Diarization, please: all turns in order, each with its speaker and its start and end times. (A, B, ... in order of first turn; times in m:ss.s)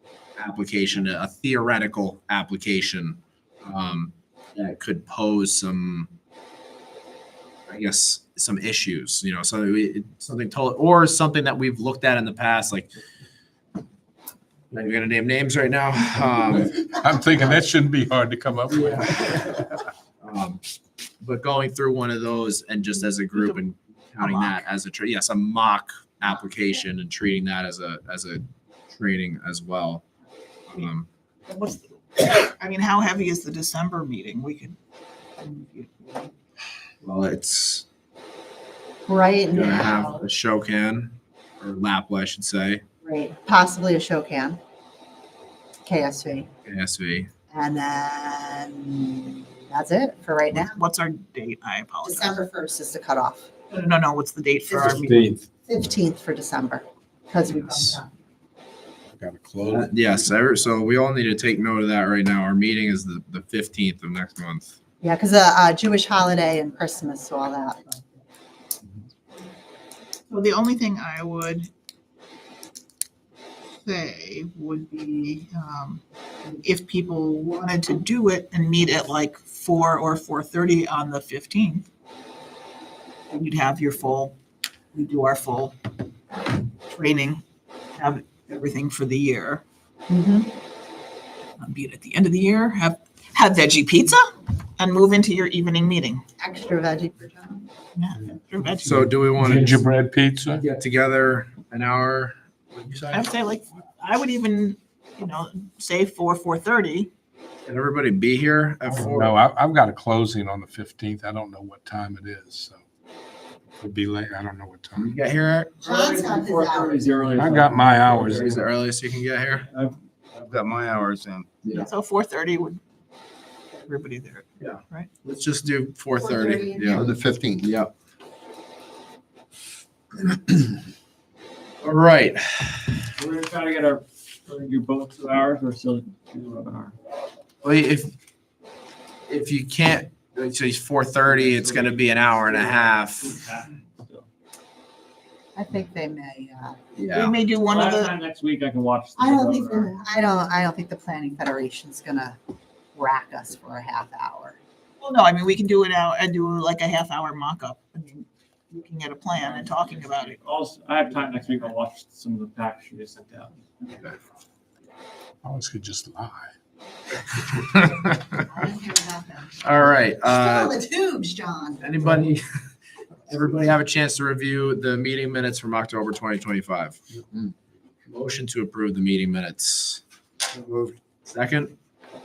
0:00.4-0:06.1 A
0:07.7-0:12.9 A
0:14.7-0:16.8 A
0:16.5-0:19.7 B
0:18.7-0:19.1 A
0:20.2-0:20.6 A
0:21.2-0:30.0 A
0:24.2-0:24.6 C
0:30.7-0:31.1 A
0:31.5-0:34.8 C
0:35.4-0:36.3 C
0:37.0-0:37.8 A
0:39.1-0:40.2 D
0:39.5-0:42.8 A
0:43.0-0:44.6 D
0:45.8-0:46.5 D
0:46.7-0:47.3 A
0:47.5-0:50.8 D
0:50.5-0:52.4 C
0:52.0-0:53.5 D
0:53.7-0:55.3 C
0:54.7-0:55.5 B
0:55.7-0:58.1 D
0:59.2-0:59.9 B
0:59.7-1:04.8 A
1:05.0-1:08.0 D
1:10.3-1:11.7 C
1:13.8-1:16.0 C
1:16.6-1:21.8 C
1:23.3-1:24.4 C
1:24.9-1:25.8 C
1:26.9-1:27.4 C
1:28.0-1:29.6 C
1:30.1-1:30.5 D
1:31.6-1:36.2 C
1:36.4-1:37.7 D
1:38.0-1:39.1 C
1:38.8-1:39.8 A
1:38.9-1:40.6 B
1:40.4-1:43.3 A
1:43.1-1:47.1 C
1:47.6-1:49.4 A
1:48.9-1:52.8 B
1:53.8-1:55.1 B
1:55.0-1:55.8 A
1:55.8-1:57.2 D
1:55.9-1:56.7 C
1:56.7-1:58.5 E
1:57.4-1:58.5 B
1:58.2-1:59.7 A
1:59.7-2:00.0 E
2:00.3-2:01.5 F
2:01.6-2:01.9 A
2:01.7-2:02.8 C
2:03.8-2:05.1 C
2:04.6-2:07.9 A
2:06.2-2:07.1 D
2:06.9-2:07.6 F
2:11.8-2:13.0 A
2:13.2-2:17.0 E
2:17.6-2:18.1 A
2:19.3-2:23.4 A
2:21.3-2:24.3 E
2:25.6-2:26.8 D
2:27.0-2:27.4 A
2:27.1-2:28.2 C
2:27.7-2:29.9 E
2:29.2-2:32.4 D
2:33.0-2:34.6 D
2:35.0-2:40.4 C
2:39.4-2:43.9 E
2:45.4-2:46.5 B
2:48.5-2:51.9 D
2:49.6-2:50.8 A
2:51.8-2:52.4 A
2:53.3-2:57.0 A
2:58.1-3:00.0 A
3:00.5-3:01.0 F
3:01.2-3:01.7 A